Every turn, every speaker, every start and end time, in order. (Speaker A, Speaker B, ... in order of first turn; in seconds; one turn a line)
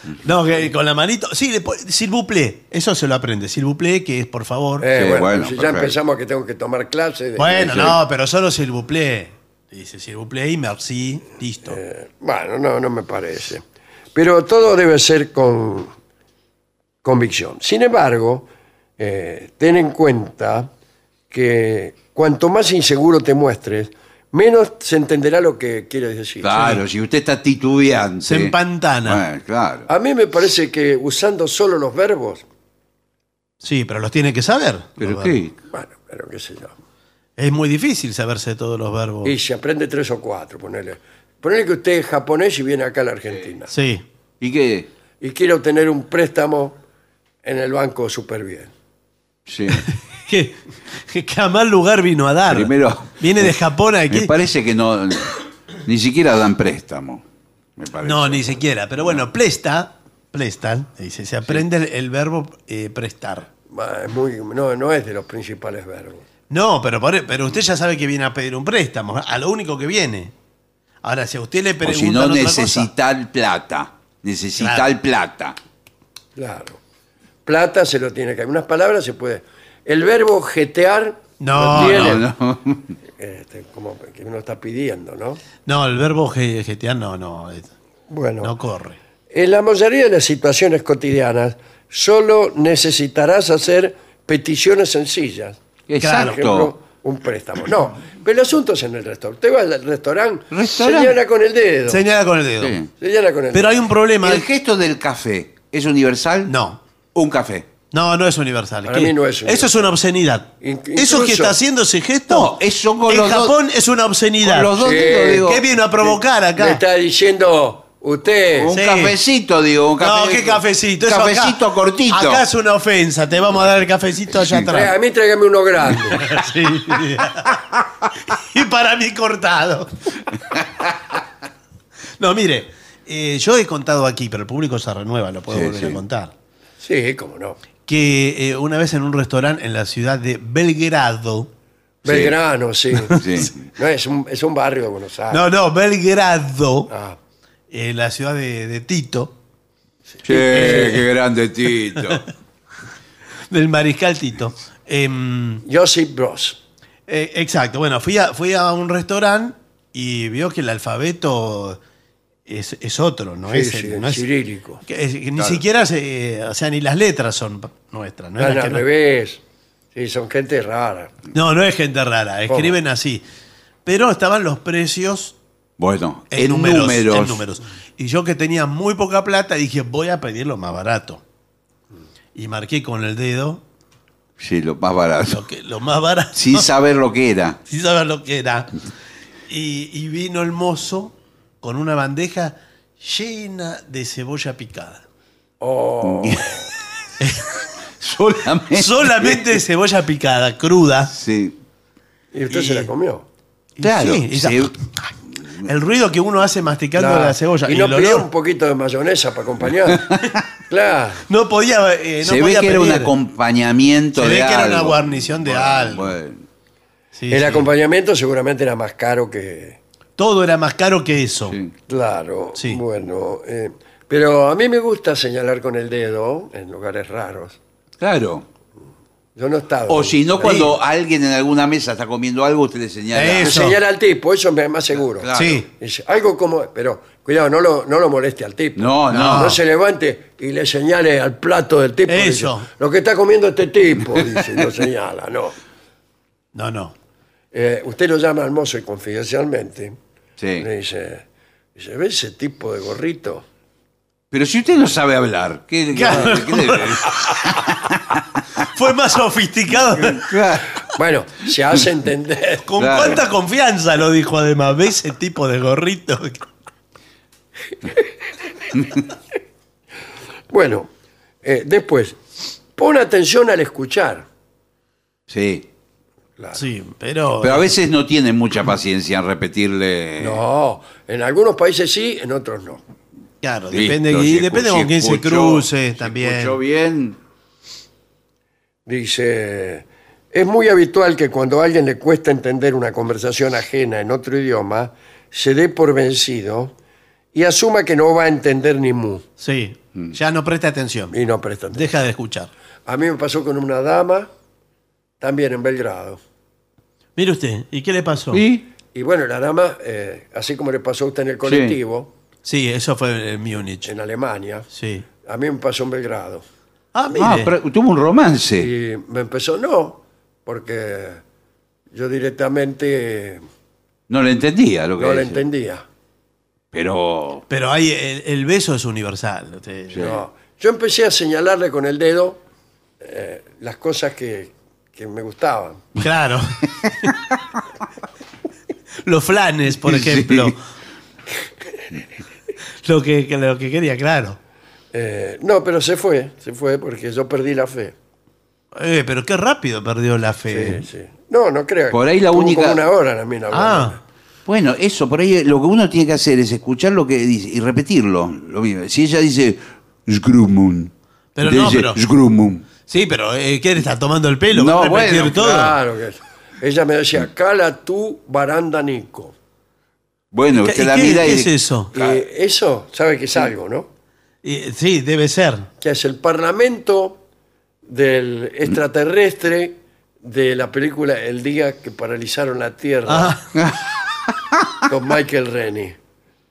Speaker A: 0.2-4.9
Speaker B: 4.8-7.9
Speaker C: 4.9-5.9
Speaker A: 7.4-11.8
Speaker B: 11.6-15.9
Speaker B: 17.0-20.7
Speaker B: 21.3-26.8
Speaker C: 26.4-29.9
Speaker A: 28.2-29.2
Speaker B: 29.9-32.4
Speaker A: 33.6-35.4
Speaker C: 35.0-35.5
Speaker B: 35.7-36.7
Speaker A: 37.4-39.3
Speaker B: 39.2-43.7
Speaker A: 43.7-44.0
Speaker C: 44.4-44.9
Speaker B: 45.2-46.8
Speaker B: 47.4-48.7
Speaker C: 49.5-49.8
Speaker A: 50.3-54.3
Speaker C: 52.5-53.5
Speaker C: 54.1-57.2
Speaker C: 57.8-59.2
Speaker A: 58.0-63.5
Speaker B: 63.7-66.2
Speaker A: 66.5-70.3
Speaker A: 71.0-72.9
Speaker C: 71.8-75.5
Speaker A: 74.6-74.9
Speaker B: 76.3-76.8
Speaker B: 77.5-82.2
Speaker A: 81.4-82.2
Speaker C: 81.7-82.9
Speaker B: 83.2-85.4
Speaker A: 85.7-87.7
Speaker B: 88.1-88.5
Speaker A: 88.4-89.0
Speaker B: 89.3-95.6
Speaker C: 95.9-96.7
Speaker A: 96.0-96.4
Speaker B: 96.1-102.0
Speaker C: 100.5-101.2
Speaker A: 101.9-102.7
Speaker C: 102.6-102.9
Speaker B: 103.0-103.8
Speaker A: 103.5-104.4
Speaker C: 104.2-106.5
Speaker A: 106.5-106.8
Speaker C: 107.1-107.7
Speaker A: 107.9-112.6
Speaker B: 108.8-109.8
Speaker B: 110.6-111.6
Speaker C: 112.3-113.6
Speaker A: 113.1-114.7
Speaker C: 114.4-115.6
Speaker B: 114.8-115.5
Speaker A: 115.4-116.8
Speaker B: 116.6-118.7
Speaker C: 118.6-122.4
Speaker A: 118.7-119.1
Speaker A: 120.0-124.9
Speaker B: 124.7-126.2
Speaker A: 126.2-127.6
Speaker A: 128.3-129.9
Speaker A: 132.2-136.3
Speaker C: 135.5-136.0
Speaker B: 136.8-137.6
Speaker A: 137.8-141.5
Speaker B: 142.0-145.4
Speaker C: 142.1-142.3
Speaker C: 143.1-143.6
Speaker A: 145.3-146.9
Speaker B: 146.9-147.2
Speaker A: 147.7-149.3
Speaker B: 150.2-151.0
Speaker C: 150.2-152.2
Speaker A: 150.3-151.0
Speaker A: 153.5-155.6
Speaker B: 155.6-156.6
Speaker A: 157.1-161.8
Speaker A: 162.5-164.2
Speaker B: 163.5-164.8
Speaker A: 164.8-168.8
Speaker B: 168.4-169.4
Speaker B: 169.9-171.1
Speaker A: 171.3-173.2
Speaker B: 172.5-172.8
Speaker A: 173.8-175.3
Speaker C: 175.8-177.4
Speaker A: 176.3-181.2
Speaker A: 182.3-183.6
Speaker C: 184.4-185.4
Speaker A: 185.3-186.7
Speaker C: 186.3-187.6
Speaker A: 187.7-188.7
Speaker A: 189.5-195.0
Speaker B: 195.6-196.7
Speaker C: 196.0-196.5
Speaker A: 197.2-197.5
Speaker C: 198.0-199.5
Speaker A: 198.7-201.1
Speaker C: 201.1-201.6
Speaker B: 202.3-203.3
Speaker A: 202.5-202.8
Speaker A: 203.8-204.8
Speaker C: 203.8-204.7
Speaker A: 205.6-208.3
Speaker B: 206.9-210.1
Speaker B: 210.7-211.2
Speaker A: 211.3-213.1
Speaker C: 212.2-216.4
Speaker A: 214.2-216.1
Speaker A: 217.2-217.7
Speaker B: 217.3-219.8
Speaker A: 220.2-221.6
Speaker B: 221.9-227.6
Speaker A: 222.6-222.8
Speaker C: 228.0-228.4
Speaker B: 229.3-230.6
Speaker C: 229.9-233.6
Speaker A: 230.4-230.7
Speaker A: 233.1-233.8
Speaker B: 233.3-245.6
Speaker C: 235.2-235.6
Speaker A: 235.3-235.7
Speaker C: 238.8-239.6
Speaker A: 239.1-239.6
Speaker A: 242.1-242.7
Speaker A: 246.6-246.9
Speaker B: 247.5-249.9
Speaker C: 250.4-250.7
Speaker B: 250.6-251.2
Speaker B: 251.8-253.4
Speaker C: 254.3-257.9
Speaker A: 255.9-257.1
Speaker A: 258.6-260.3
Speaker C: 260.0-260.8
Speaker B: 260.9-262.6
Speaker A: 262.7-266.4
Speaker C: 262.8-263.2
Speaker B: 270.5-270.9
Speaker B: 271.4-272.2
Speaker B: 272.7-274.3
Speaker C: 275.3-275.6
Speaker B: 276.4-276.6
Speaker A: 276.6-277.7
Speaker C: 277.4-280.4
Speaker B: 280.2-282.8
Speaker A: 283.4-286.6
Speaker C: 283.7-287.2
Speaker B: 288.9-296.7
Speaker B: 297.3-299.2
Speaker A: 299.4-301.1
Speaker B: 301.1-301.9
Speaker A: 301.7-302.5
Speaker B: 302.9-304.3
Speaker B: 305.2-306.2
Speaker A: 307.2-308.4
Speaker C: 308.3-308.6
Speaker B: 308.9-312.1
Speaker C: 311.4-311.8
Speaker A: 312.4-313.9
Speaker B: 313.8-314.7
Speaker A: 314.7-315.1
Speaker B: 315.2-316.4
Speaker A: 316.9-317.5
Speaker C: 317.1-318.7
Speaker B: 318.6-321.2
Speaker B: 321.9-323.4
Speaker C: 324.1-325.4
Speaker B: 325.0-325.8
Speaker C: 326.7-327.4
Speaker A: 327.5-330.1
Speaker B: 330.0-332.4
Speaker B: 333.0-335.8
Speaker A: 336.0-337.1
Speaker A: 339.1-340.6
Speaker C: 339.9-340.5
Speaker A: 342.8-344.4
Speaker B: 344.9-347.9
Speaker A: 348.7-350.8
Speaker B: 350.5-354.0
Speaker C: 351.9-352.8
Speaker A: 353.5-354.0
Speaker C: 354.4-362.6
Speaker A: 361.4-362.0
Speaker A: 362.9-365.7
Speaker C: 364.5-365.5
Speaker B: 365.3-369.3
Speaker C: 370.3-372.2
Speaker A: 370.6-371.9
Speaker B: 371.9-373.9
Speaker A: 374.4-375.7
Speaker B: 375.8-377.2
Speaker B: 377.8-383.4
Speaker A: 383.1-383.4
Speaker C: 383.6-384.3
Speaker B: 384.9-386.0